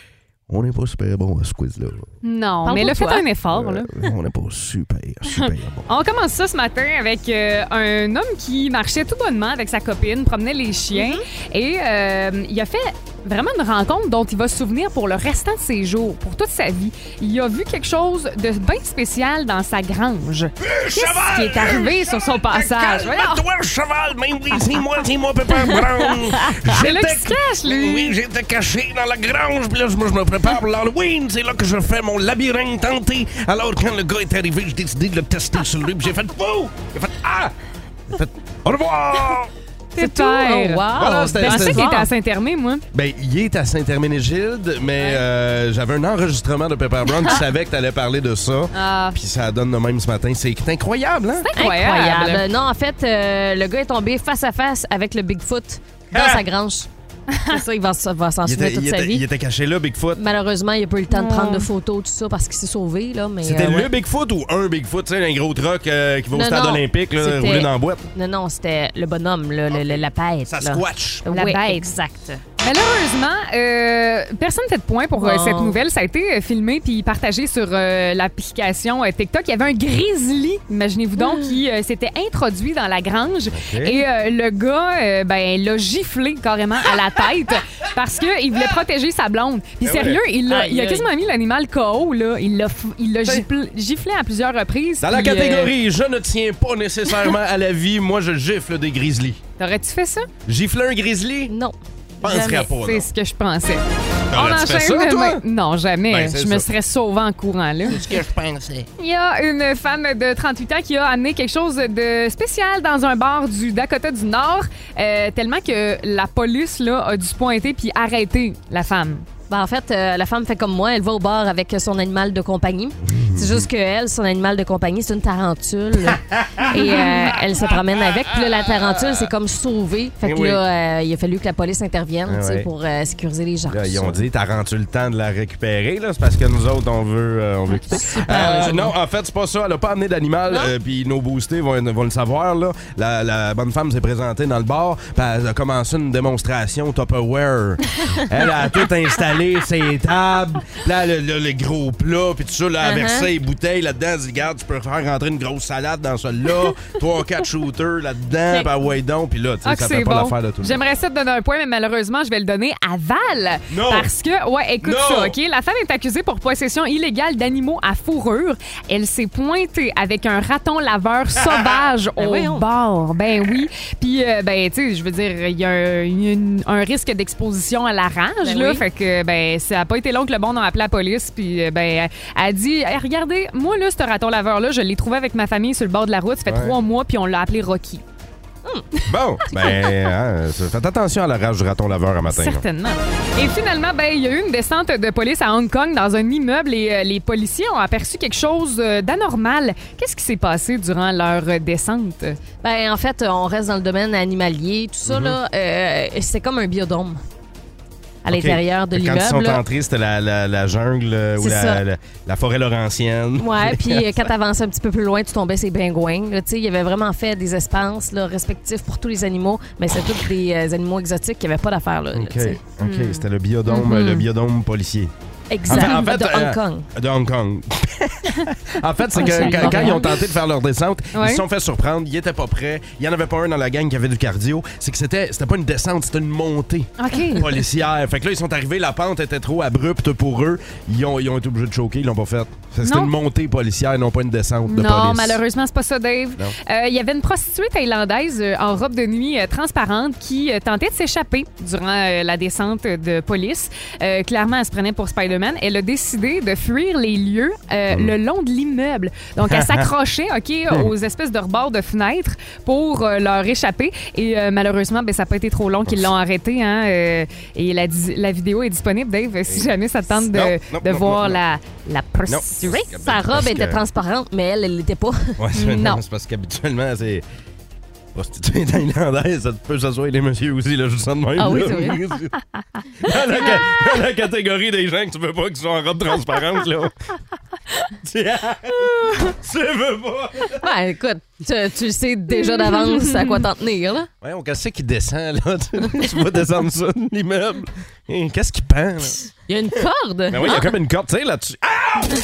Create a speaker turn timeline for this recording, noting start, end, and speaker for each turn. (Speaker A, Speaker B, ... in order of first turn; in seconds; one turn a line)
Speaker A: 0.5-2.1
Speaker B: 2.2-3.9
Speaker C: 2.6-3.2
Speaker A: 3.5-5.9
Speaker B: 5.3-23.4
Speaker C: 10.9-11.2
Speaker A: 20.6-37.5
Speaker B: 26.6-28.1
Speaker A: 38.1-39.5
Speaker B: 40.0-42.8
Speaker C: 40.0-42.1
Speaker A: 40.9-41.9
Speaker A: 42.9-51.5
Speaker B: 48.7-49.2
Speaker B: 51.4-52.4
Speaker C: 51.5-56.9
Speaker A: 56.1-56.4
Speaker C: 57.4-59.2
Speaker A: 58.4-60.2
Speaker C: 60.1-63.9
Speaker B: 61.1-61.7
Speaker A: 63.4-68.1
Speaker C: 66.3-72.4
Speaker A: 69.7-71.3
Speaker B: 71.3-71.9
Speaker B: 72.6-95.7
Speaker C: 75.2-75.8
Speaker C: 81.2-81.5
Speaker A: 83.5-84.0
Speaker A: 89.8-90.2
Speaker C: 90.5-91.1
Speaker A: 95.0-99.4
Speaker B: 99.6-100.3
Speaker A: 100.5-101.5
Speaker C: 101.5-102.7
Speaker A: 102.2-103.1
Speaker B: 102.8-108.1
Speaker A: 104.3-105.4
Speaker A: 106.1-106.7
Speaker A: 107.9-108.8
Speaker B: 109.0-119.2
Speaker C: 119.5-134.2
Speaker A: 123.0-123.7
Speaker A: 126.1-126.7
Speaker A: 128.3-129.3
Speaker A: 130.2-130.6
Speaker A: 132.3-132.7
Speaker A: 133.7-160.8
Speaker C: 137.7-138.9
Speaker C: 152.8-153.3
Speaker B: 159.6-188.0
Speaker A: 163.7-164.1
Speaker A: 164.8-165.3
Speaker C: 172.2-172.7
Speaker C: 178.4-178.8
Speaker A: 186.4-186.8
Speaker A: 189.1-192.6
Speaker C: 189.4-189.9
Speaker B: 192.3-202.4
Speaker C: 202.6-207.2
Speaker A: 205.1-205.4
Speaker C: 208.2-209.6
Speaker A: 208.3-214.1
Speaker C: 211.4-211.8
Speaker C: 213.4-223.0
Speaker A: 222.1-225.1
Speaker C: 223.7-224.2
Speaker C: 225.5-226.9
Speaker B: 225.7-226.0
Speaker A: 225.7-245.4
Speaker C: 229.2-230.2
Speaker B: 229.4-230.0
Speaker B: 231.1-231.4
Speaker B: 237.0-237.6
Speaker B: 242.8-243.1
Speaker B: 244.7-272.9
Speaker A: 259.4-259.9
Speaker A: 269.5-271.4
Speaker A: 272.3-273.8
Speaker C: 273.0-275.4
Speaker A: 275.4-277.2
Speaker B: 275.5-276.0
Speaker A: 278.1-282.4
Speaker C: 281.4-282.0
Speaker A: 283.0-286.9
Speaker A: 287.9-290.6
Speaker C: 290.6-294.1
Speaker B: 292.7-293.3
Speaker A: 294.2-299.3
Speaker C: 299.5-300.7
Speaker A: 300.3-302.1